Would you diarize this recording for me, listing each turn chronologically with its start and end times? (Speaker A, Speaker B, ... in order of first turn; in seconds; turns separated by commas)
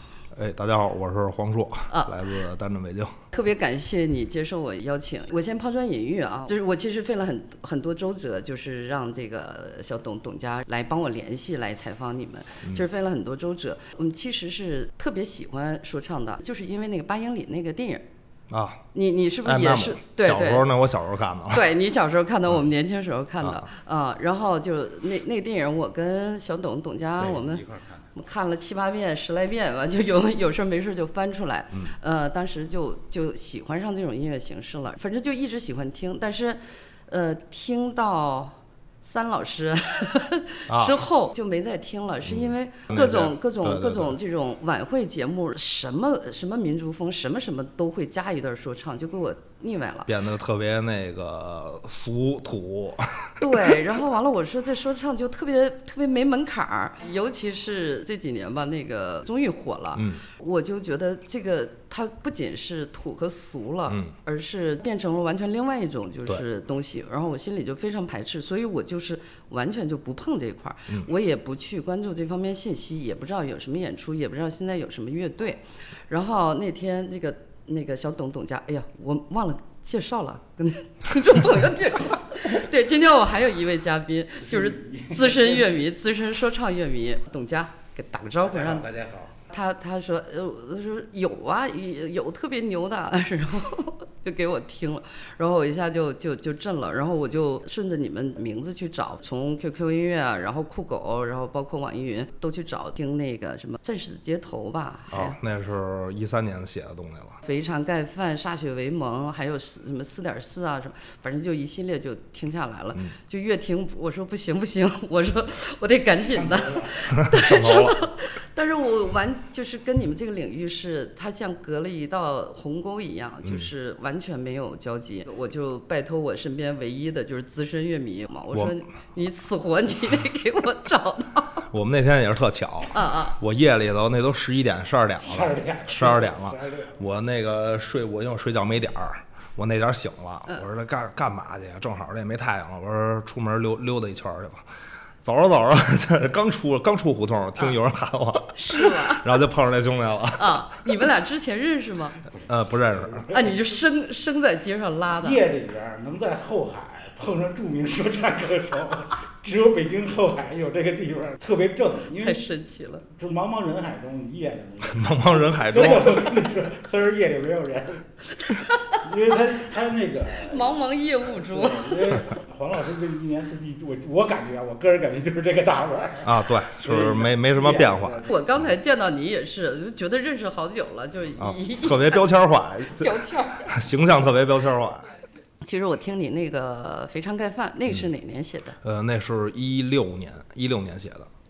Speaker A: 0.3-3.2, Speaker B: 1.9-2.1, Speaker B: 3.3-18.1, Speaker A: 18.5-18.9, Speaker B: 18.9-20.7, Speaker A: 19.4-21.7, Speaker B: 21.5-27.6, Speaker A: 23.4-23.7, Speaker C: 27.3-28.1, Speaker B: 28.1-50.1, Speaker A: 40.7-41.0, Speaker A: 42.3-44.1, Speaker A: 50.1-53.5, Speaker B: 53.4-88.9, Speaker A: 60.0-60.2, Speaker A: 63.9-64.1, Speaker C: 84.4-85.8, Speaker C: 88.4-89.3, Speaker B: 89.5-105.4, Speaker A: 105.1-107.4, Speaker B: 107.4-131.7, Speaker C: 116.2-117.0, Speaker A: 117.1-118.0, Speaker A: 128.5-128.8, Speaker A: 131.7-144.7, Speaker B: 132.9-133.4, Speaker C: 135.2-137.0, Speaker A: 145.2-150.7, Speaker B: 148.6-149.4, Speaker B: 150.4-152.2, Speaker A: 152.5-153.3, Speaker C: 153.0-153.7, Speaker B: 153.3-155.4, Speaker C: 155.2-162.4, Speaker B: 162.2-163.1, Speaker C: 163.2-165.1, Speaker A: 164.8-166.5, Speaker C: 165.7-168.1, Speaker B: 168.5-169.0, Speaker C: 169.0-178.4, Speaker B: 170.4-172.2, Speaker A: 176.2-178.2, Speaker B: 178.3-182.3, Speaker A: 181.4-185.1, Speaker B: 183.0-183.7, Speaker B: 185.6-188.8, Speaker A: 188.8-191.3